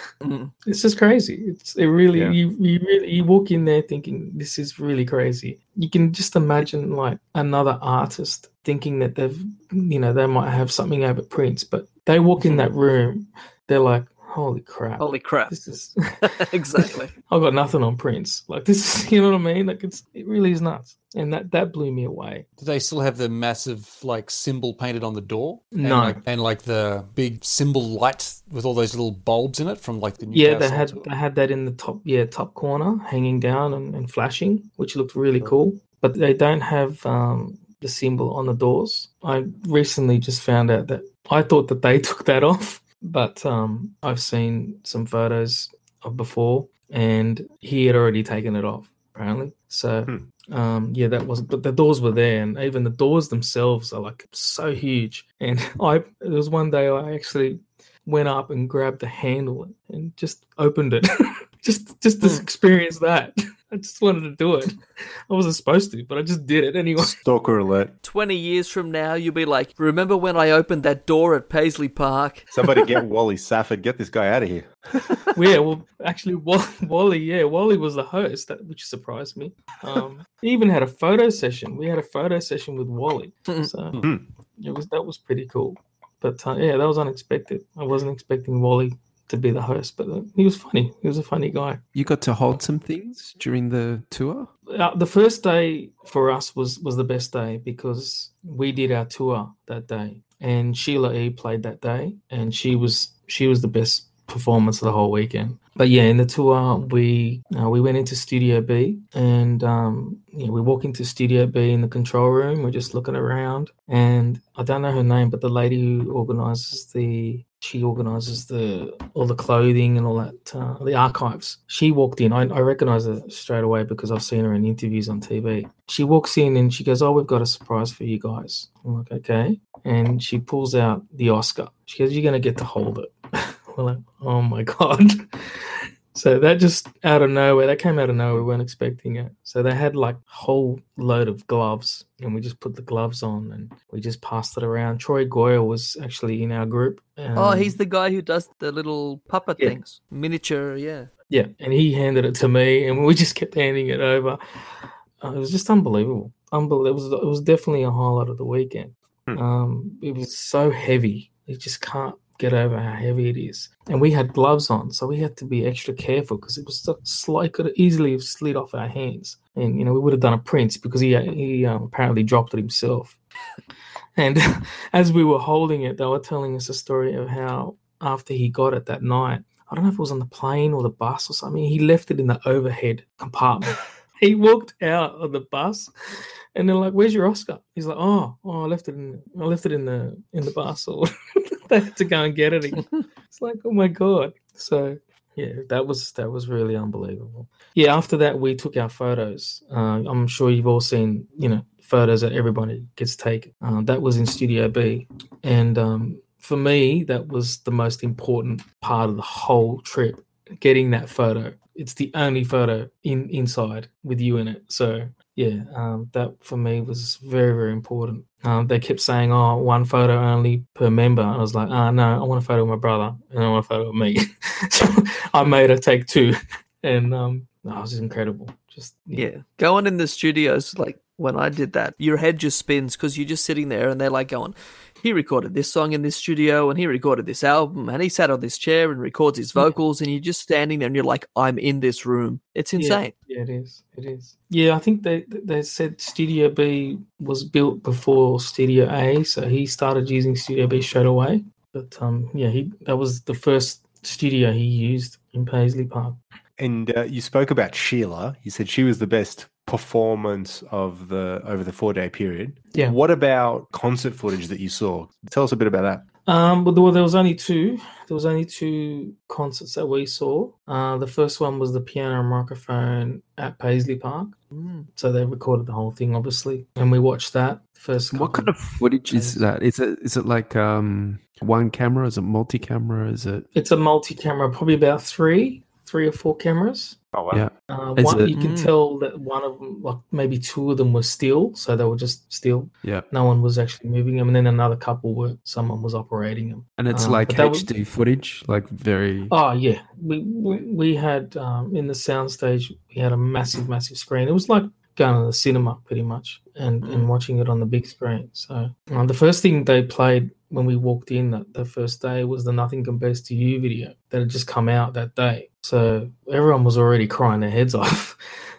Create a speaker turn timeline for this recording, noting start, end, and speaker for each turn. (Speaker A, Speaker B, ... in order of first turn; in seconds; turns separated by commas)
Speaker A: 0.2-0.5, Speaker B: 0.7-16.1, Speaker A: 12.4-12.7, Speaker A: 15.0-15.5, Speaker A: 16.2-17.1, Speaker B: 16.8-22.5, Speaker C: 22.6-31.1, Speaker B: 25.7-26.2, Speaker B: 30.3-67.2, Speaker D: 67.0-67.9, Speaker A: 68.0-72.6, Speaker D: 72.5-75.0, Speaker B: 75.3-91.8, Speaker E: 92.0-94.5, Speaker B: 94.7-147.8, Speaker A: 147.4-151.1, Speaker B: 151.3-154.4, Speaker B: 155.2-173.2, Speaker B: 174.2-185.9, Speaker B: 186.6-191.1, Speaker B: 191.7-229.3, Speaker A: 229.1-243.1, Speaker B: 242.8-256.2, Speaker D: 256.6-266.1, Speaker B: 266.3-274.4, Speaker A: 274.5-274.9, Speaker B: 274.9-279.4, Speaker E: 278.1-283.5, Speaker B: 283.5-287.0, Speaker D: 287.1-287.4, Speaker E: 287.3-288.4, Speaker B: 287.7-297.7, Speaker A: 288.3-288.7, Speaker E: 292.8-293.1, Speaker E: 296.8-299.3, Speaker B: 299.3-318.2, Speaker A: 306.8-307.1